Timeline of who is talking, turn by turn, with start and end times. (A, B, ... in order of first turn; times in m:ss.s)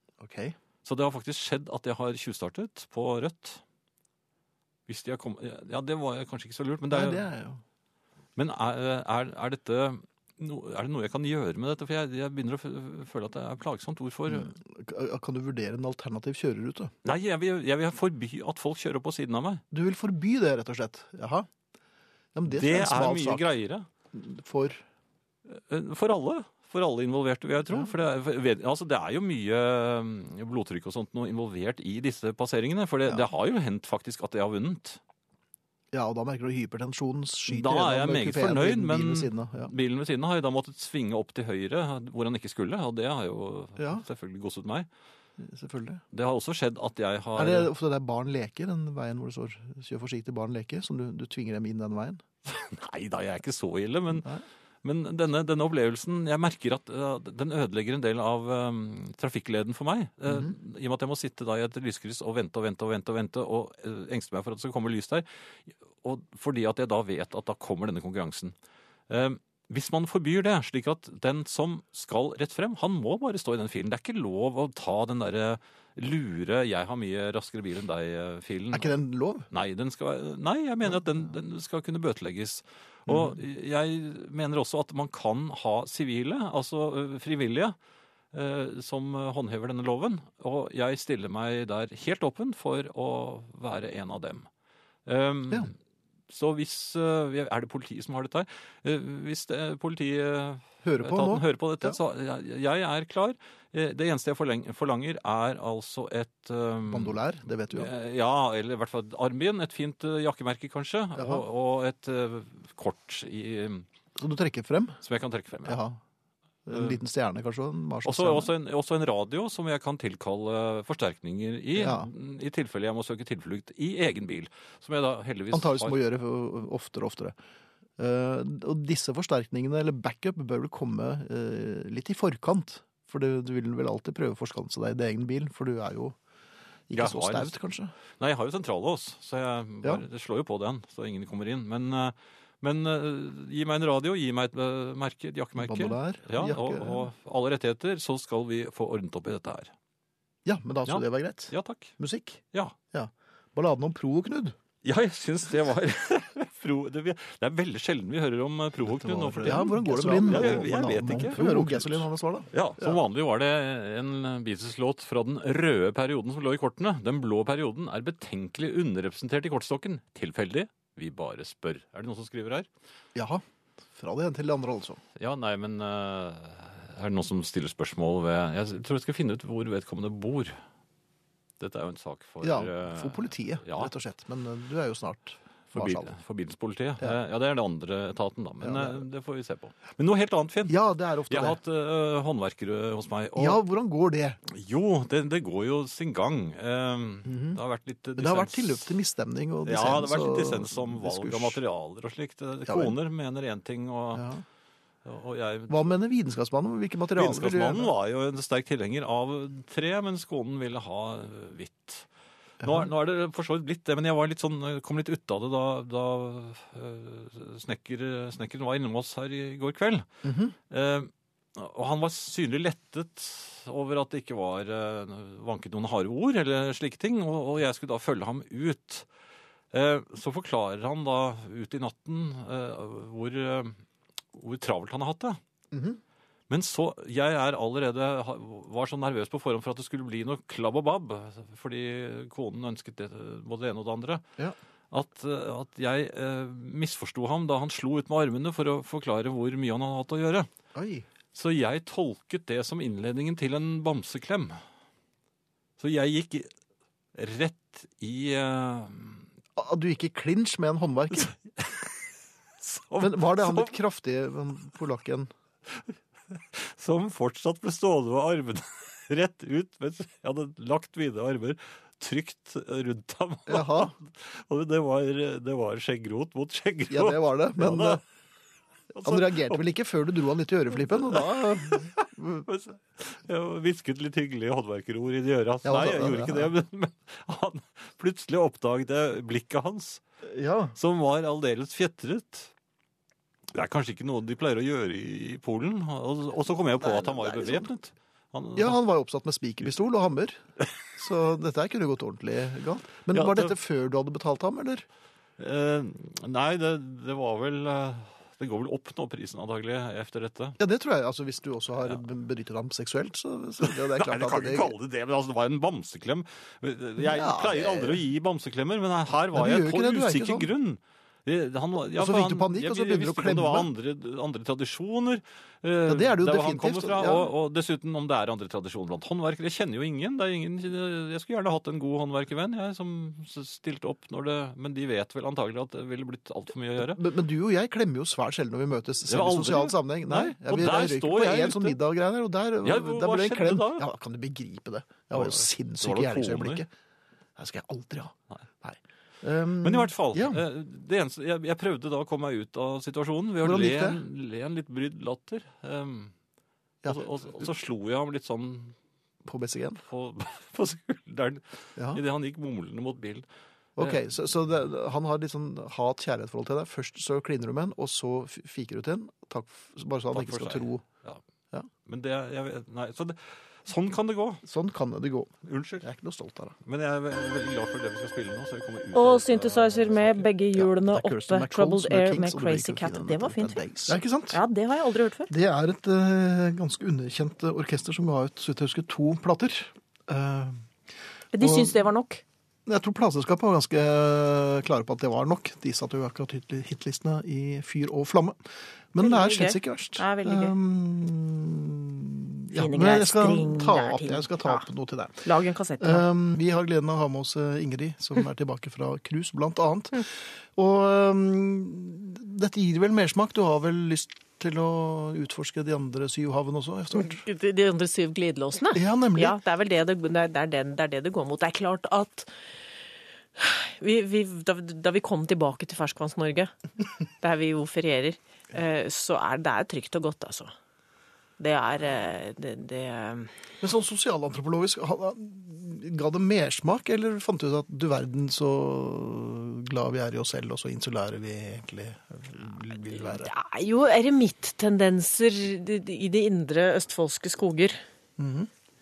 0:00.2-0:00.6 A
0:00.8-0:03.6 B
0:04.9-0:07.3 B
0:06.9-0:07.6 A
0:08.4-0:14.5 B
0:14.3-0:16.9 A
0:17.0-0:19.6 B
0:19.7-0:21.5 A
0:22.4-0:23.5 A
0:22.5-0:23.9 B
0:24.1-0:24.8 A
0:25.5-0:35.0 B
0:35.9-0:39.7 A
0:37.5-0:44.9 B
0:43.8-0:44.0 A
0:45.4-0:46.0 A
0:46.1-0:47.7 B
0:47.4-0:52.2 A
0:52.5-0:54.3 B
0:54.8-1:08.5 B
1:00.3-1:00.5 A
1:09.1-1:19.0 B
1:18.7-1:19.5 A
1:19.5-1:27.8 B
1:23.1-1:23.4 A
1:28.3-1:34.5 B
1:35.1-1:35.7 B
1:36.3-1:47.2 B
1:40.8-1:42.0 A
1:46.9-1:47.9 A
1:47.7-1:53.8 B
1:51.2-1:51.4 A
1:54.2-1:55.0 A
1:55.0-1:55.8 B
1:55.7-1:56.0 A
1:56.7-1:58.5 A
1:56.7-1:57.0 B
1:58.0-2:06.0 B
2:01.8-2:02.1 A
2:05.5-2:07.4 A
2:08.0-2:16.2 A
2:16.9-2:17.9 A
2:16.9-2:17.6 B
2:18.2-2:29.7 B
2:25.6-2:27.1 A
2:30.5-2:32.4 A
2:30.9-2:31.9 B
2:32.9-2:34.6 A
2:34.8-2:52.7 B
2:39.0-2:43.0 A
2:53.2-2:53.4 A
2:53.9-2:55.0 A
2:55.2-3:00.6 B
3:01.6-3:03.9 B
3:02.4-3:06.1 A
3:05.7-3:10.8 B
3:08.6-3:09.0 A
3:10.7-3:11.6 A
3:11.3-3:13.6 B
3:13.4-3:14.4 A
3:14.5-3:18.9 B
3:17.2-3:17.6 A
3:18.2-3:21.6 A
3:19.6-3:24.3 B
3:22.7-3:23.0 A
3:24.1-3:24.4 A
3:25.0-3:26.0 B
3:25.7-3:27.9 A
3:27.2-3:32.1 B
3:32.6-3:32.9 A
3:32.6-3:40.1 B
3:40.2-3:40.6 A
3:40.7-3:49.1 B
3:49.7-3:53.8 B
3:54.4-3:55.4 B
3:55.7-3:56.0 A
3:56.5-4:04.2 B
4:04.9-4:10.5 B
4:10.8-4:11.0 A
4:11.3-4:14.6 B
4:15.8-4:16.5 B
4:17.1-4:19.2 B
4:19.6-4:21.3 A
4:21.6-4:21.8 B
4:22.6-4:23.7 B
4:23.0-4:25.3 A
4:26.3-4:38.0 B
4:33.5-4:33.9 A
4:36.9-4:38.0 A
4:39.0-4:39.6 B
4:39.0-4:42.4 A
4:40.8-4:50.0 B
4:45.6-4:46.5 A
4:50.3-4:50.8 A
4:50.8-4:52.5 B
4:53.5-4:58.8 B
4:56.8-4:57.7 A
4:58.6-5:00.4 A
5:01.0-5:04.8 A
5:03.1-5:03.5 B
5:05.4-5:10.6 B
5:10.6-5:14.7 A
5:13.6-5:37.0 B
5:17.0-5:18.0 A
5:19.3-5:20.5 A
5:22.0-5:23.7 A
5:25.9-5:27.3 A
5:36.8-5:46.7 A
5:39.1-5:41.8 B
5:42.6-5:43.9 B
5:45.1-5:46.6 B
5:47.4-5:50.4 A
5:49.6-5:56.1 B
5:53.4-5:54.0 A
5:56.8-5:57.5 A
5:56.9-5:58.8 B
5:59.2-5:59.8 A
5:59.8-6:03.3 B
6:03.8-6:10.8 A
6:10.1-6:11.2 B
6:11.9-6:14.4 B
6:14.4-6:16.6 A
6:15.4-6:15.8 B
6:16.6-6:20.3 B
6:18.9-6:25.3 C
6:20.6-6:24.4 A
6:25.3-6:30.6 A
6:31.3-6:32.2 C
6:31.4-6:31.8 A
6:32.7-6:38.4 A
6:38.9-6:45.3 A
6:39.0-6:40.5 C
6:42.5-6:44.6 C
6:45.2-6:46.1 C
6:45.8-6:57.2 A
6:57.0-7:02.3 C
6:58.8-6:59.4 A
7:03.4-7:06.6 C
7:07.2-7:10.5 C
7:11.4-7:13.4 C
7:13.6-7:23.3 A
7:23.1-7:27.8 C
7:28.2-7:28.5 A